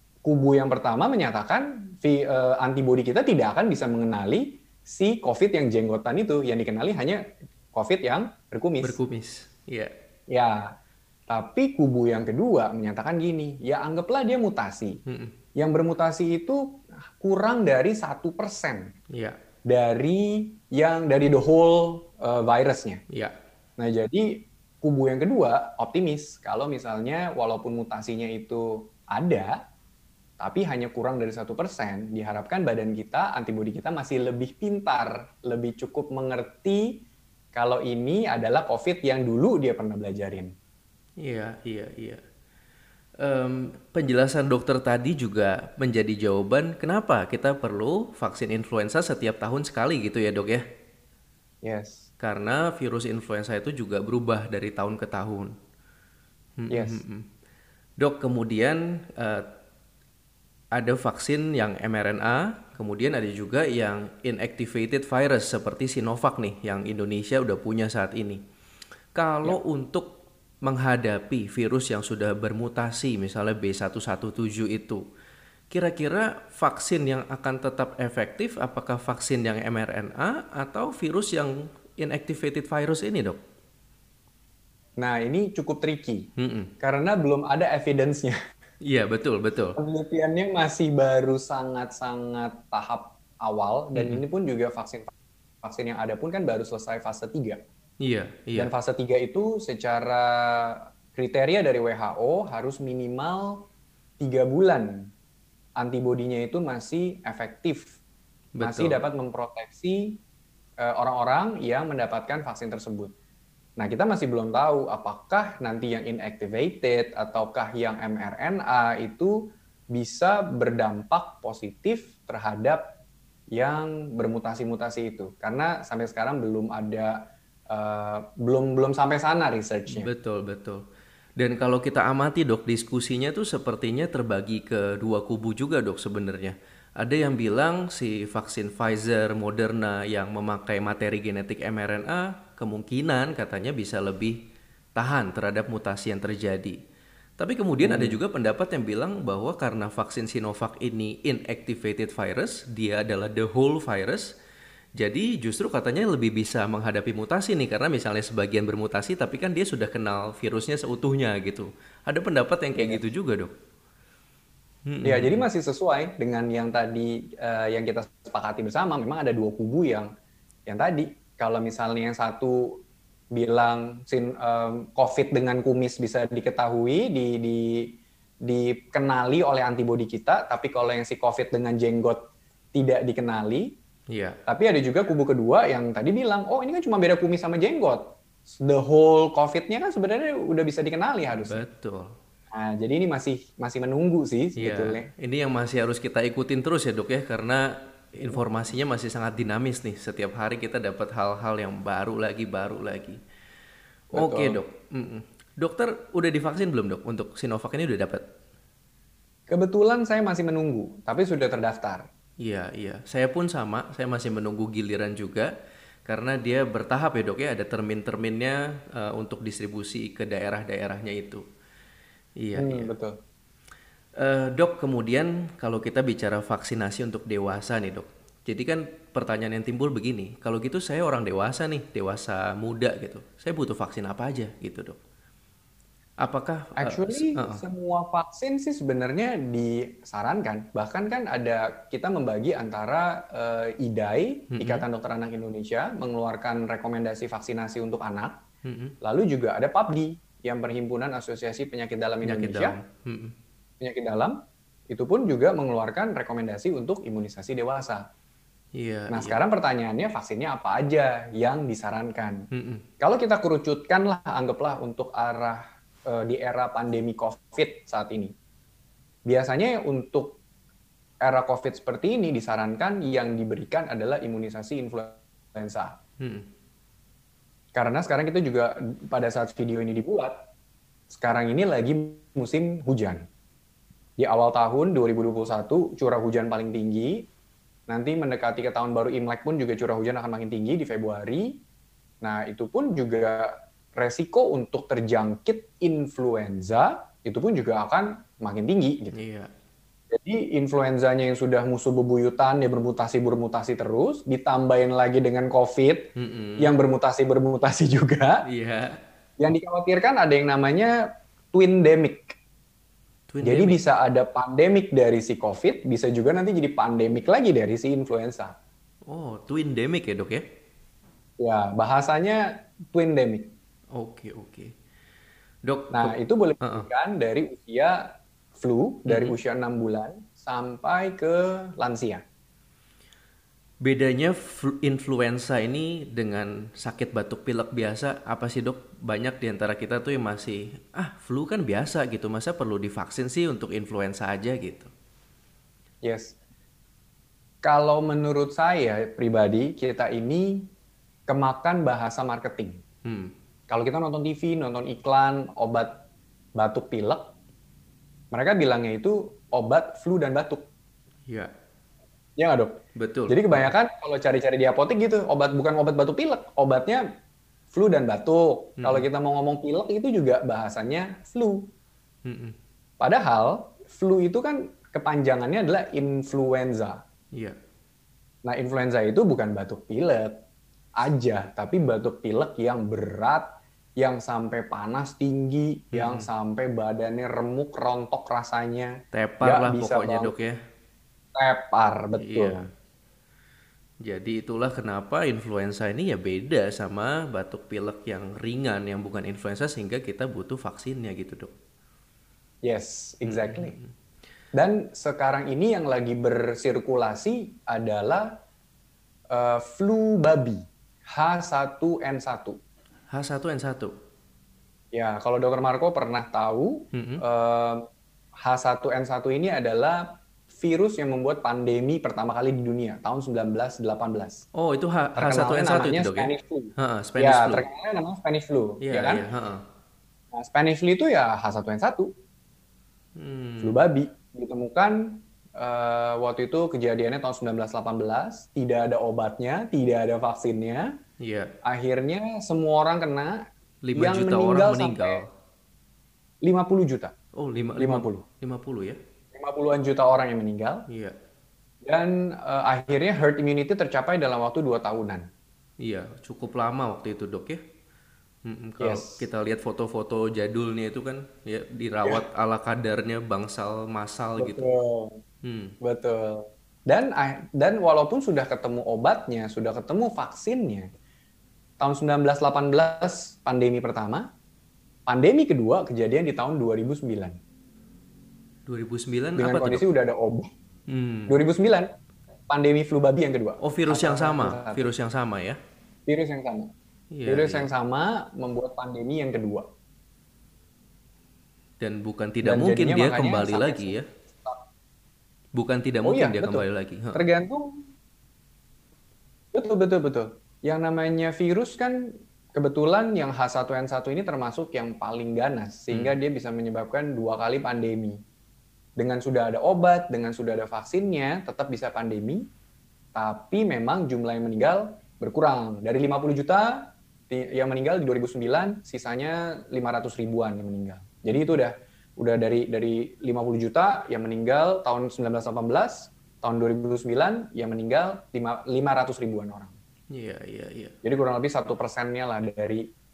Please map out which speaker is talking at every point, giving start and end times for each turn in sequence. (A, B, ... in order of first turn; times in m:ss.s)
0:00.2-0:09.0 A
0:08.8-0:09.9 B
0:10.3-0:10.7 A
0:11.3-0:15.0 A
0:15.1-0:15.4 B
0:15.6-0:18.9 A
0:19.1-0:19.4 B
0:19.7-0:23.0 A
0:23.1-0:23.4 B
0:23.8-0:29.6 A
0:30.4-0:37.0 A
0:37.5-0:40.5 A
0:41.2-0:42.2 B
0:43.2-0:50.6 B
0:51.6-0:52.1 A
0:52.2-0:55.6 B
0:56.6-0:57.3 B
0:56.7-0:57.0 A
0:58.0-0:59.5 B
1:00.7-1:08.4 B
1:09.2-1:15.0 B
1:15.7-1:23.4 B
1:25.0-1:28.4 A
1:26.4-1:26.7 B
1:28.8-1:29.8 B
1:29.8-1:35.1 A
1:34.0-1:34.2 B
1:35.6-1:37.6 A
1:38.0-1:38.7 B
1:38.6-1:43.7 A
1:44.2-1:45.1 A
1:45.8-1:48.0 A
1:48.6-1:49.0 B
1:48.6-1:50.2 A
1:50.8-1:53.1 A
1:53.8-1:59.4 A
1:59.9-2:02.8 A
2:03.5-2:10.1 A
2:09.9-2:10.8 B
2:11.4-2:26.8 B
2:27.4-2:34.4 B
2:27.8-2:28.2 A
2:35.0-2:43.5 B
2:42.8-2:43.0 A
2:44.9-2:45.4 B
2:45.0-2:50.1 A
2:50.7-2:57.9 A
2:58.4-3:02.2 A
3:02.7-3:03.8 A
3:04.1-3:04.4 B
3:04.5-3:11.6 A
3:11.4-3:12.2 B
3:12.5-3:15.1 A
3:14.6-3:23.2 B
3:24.1-3:24.6 A
3:24.1-3:28.2 B
3:29.5-3:32.1 A
3:32.4-3:35.5 B
3:36.1-3:41.4 B
3:42.4-3:42.9 B
3:42.6-3:43.2 A
3:44.2-3:55.0 B
3:56.2-3:57.6 B
3:56.8-4:08.4 A
4:04.5-4:04.8 B
4:08.6-4:09.0 B
4:09.0-4:12.8 A
4:12.2-4:13.4 B
4:13.8-4:14.4 A
4:14.9-4:18.1 A
4:18.8-4:19.4 B
4:19.1-4:22.5 A
4:22.5-4:22.8 B
4:23.0-4:28.3 A
4:29.3-4:30.4 A
4:31.2-4:36.0 A
4:36.2-4:36.5 B
4:37.8-4:40.4 A
4:41.1-4:43.2 A
4:44.2-4:47.3 A
4:47.9-4:51.6 A
4:52.2-4:59.2 A
4:59.1-4:59.5 B
5:00.1-5:08.5 A
5:06.2-5:06.7 B
5:08.5-5:09.0 B
5:09.4-5:12.4 A
5:13.3-5:13.8 B
5:13.4-5:18.6 A
5:19.1-5:20.4 B
5:21.4-5:23.5 A
5:23.9-5:24.7 B
5:25.6-5:26.9 B
5:25.9-5:32.2 A
5:29.1-5:29.4 B
5:33.8-5:44.9 B
5:46.0-5:46.4 A
5:47.6-5:50.7 A
5:51.3-5:52.8 A
5:53.0-5:53.3 B
5:53.7-5:56.0 A
5:56.6-5:57.4 A
5:58.3-6:00.7 A
6:02.4-6:07.0 A
6:03.0-6:03.7 B
6:07.7-6:11.7 A
6:08.8-6:09.1 B
6:12.2-6:12.6 B
6:13.0-6:17.0 A
6:18.4-6:20.4 A
6:21.0-6:30.3 A
6:25.9-6:26.3 B
6:29.1-6:30.6 B
6:31.4-6:32.7 A
6:32.2-6:32.7 B
6:34.0-6:41.5 B
6:42.6-6:43.8 A
6:43.2-6:43.9 B
6:44.5-6:48.3 A
6:49.3-6:52.6 A
6:53.1-6:54.0 B
6:54.9-6:57.8 A
6:56.9-6:57.2 B
6:58.4-7:04.4 A
7:04.6-7:07.6 B
7:05.2-7:09.2 A
7:08.8-7:09.6 B
7:10.3-7:12.1 A
7:13.2-7:13.8 B
7:13.6-7:21.0 A
7:21.2-7:21.5 B
7:21.6-7:25.2 A
7:23.8-7:25.3 B
7:26.4-7:27.1 A
7:27.3-7:29.0 B
7:27.8-7:28.2 A
7:29.3-7:30.9 A
7:30.9-7:31.2 B
7:31.8-7:35.3 A
7:35.8-7:37.6 B
7:38.5-7:44.7 B
7:38.8-7:39.3 A
7:44.4-7:45.2 A
7:45.4-7:45.8 B
7:45.8-7:50.9 A
7:51.8-7:54.3 A
7:55.1-7:57.4 A
7:58.7-7:59.9 B
7:59.4-8:00.5 A
8:00.9-8:01.4 B
8:01.3-8:01.9 A
8:02.5-8:04.9 A
8:03.6-8:05.6 B
8:06.1-8:06.7 A
8:07.1-8:07.7 B
8:07.3-8:09.7 A
8:11.8-8:14.1 B
8:12.4-8:14.6 A
8:15.6-8:17.2 B
8:16.0-8:17.9 A
8:19.5-8:28.2 A
8:29.0-8:32.5 A
8:33.2-8:49.8 A
8:50.1-8:51.0 B
8:51.0-8:52.9 A